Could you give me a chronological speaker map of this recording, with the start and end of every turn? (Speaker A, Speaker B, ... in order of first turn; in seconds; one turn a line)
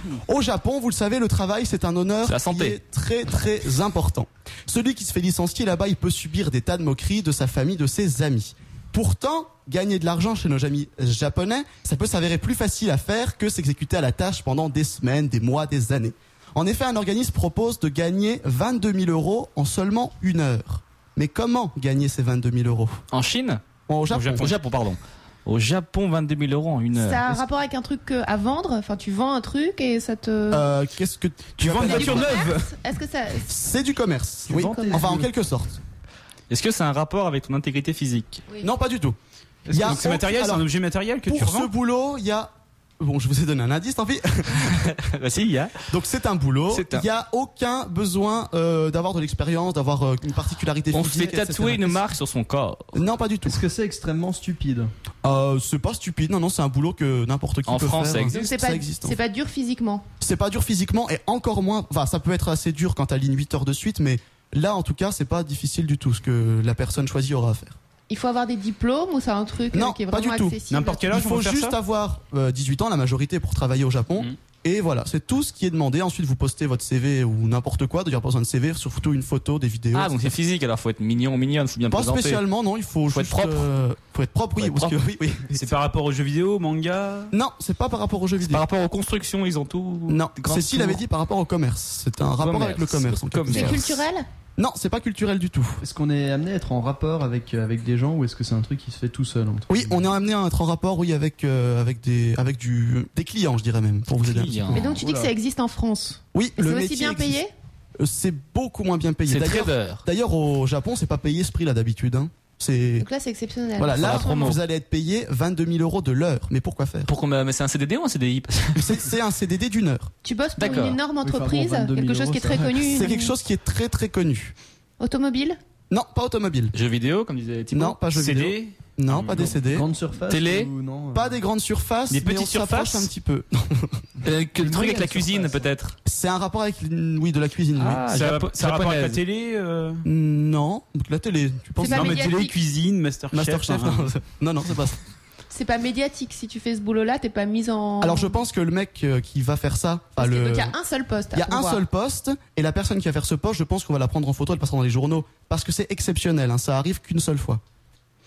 Speaker A: 0.2-23.0
Speaker B: 2.2-2.8
Speaker B: 23.1-23.6
Speaker A: 23.9-24.5
Speaker B: 24.1-27.4
Speaker C: 26.9-30.7
Speaker A: 30.5-32.5
Speaker D: 31.6-32.7
Speaker C: 31.9-33.5
Speaker A: 33.5-35.8
Speaker E: 34.5-35.3
Speaker C: 34.5-35.2
Speaker B: 36.5-38.4
Speaker A: 38.6-39.2
Speaker D: 39.7-41.7
Speaker A: 39.7-40.6
Speaker A: 41.2-44.8
Speaker B: 44.7-45.9
Speaker A: 45.9-52.1
Speaker B: 46.7-47.0
Speaker B: 50.9-52.9
Speaker A: 52.9-53.6
Speaker E: 53.5-54.9
Speaker A: 55.2-59.2
Speaker B: 57.7-58.4
Speaker C: 58.3-60.0
Speaker A: 60.2-67.8
Speaker C: 68.1-71.1
Speaker A: 69.7-80.3
Speaker D: 70.7-71.8
Speaker B: 79.9-82.4
Speaker A: 81.9-85.7
Speaker B: 83.1-83.7
Speaker B: 84.6-85.0
Speaker D: 85.5-87.3
Speaker A: 87.3-88.6
Speaker B: 88.5-91.0
Speaker A: 90.1-93.9
Speaker B: 92.4-94.0
Speaker C: 93.5-94.2
Speaker A: 94.6-95.8
Speaker E: 95.8-100.0
Speaker A: 99.7-104.8
Speaker B: 104.2-105.0
Speaker C: 104.7-107.5
Speaker E: 104.8-105.3
Speaker A: 106.3-107.4
Speaker A: 108.0-113.0
Speaker B: 109.3-110.0
Speaker C: 113.0-114.6
Speaker A: 113.8-117.1
Speaker B: 114.0-114.6
Speaker B: 117.1-119.1
Speaker A: 118.7-120.1
Speaker C: 120.2-123.3
Speaker B: 120.6-121.0
Speaker E: 121.2-123.2
Speaker A: 122.9-124.5
Speaker C: 125.0-125.6
Speaker A: 125.9-126.7
Speaker B: 126.7-128.0
Speaker A: 127.7-129.9
Speaker D: 128.1-128.7
Speaker E: 129.3-131.4
Speaker B: 130.3-130.7
Speaker A: 131.1-134.0
Speaker B: 132.1-133.1
Speaker B: 134.2-135.9
Speaker E: 134.6-135.7
Speaker A: 136.0-138.0
Speaker B: 137.8-139.2
Speaker D: 138.1-140.0
Speaker A: 140.0-142.3
Speaker C: 141.8-142.5
Speaker D: 141.8-144.1
Speaker A: 143.3-145.0
Speaker C: 145.5-148.4
Speaker A: 148.0-150.7
Speaker C: 150.2-151.8
Speaker A: 151.3-157.6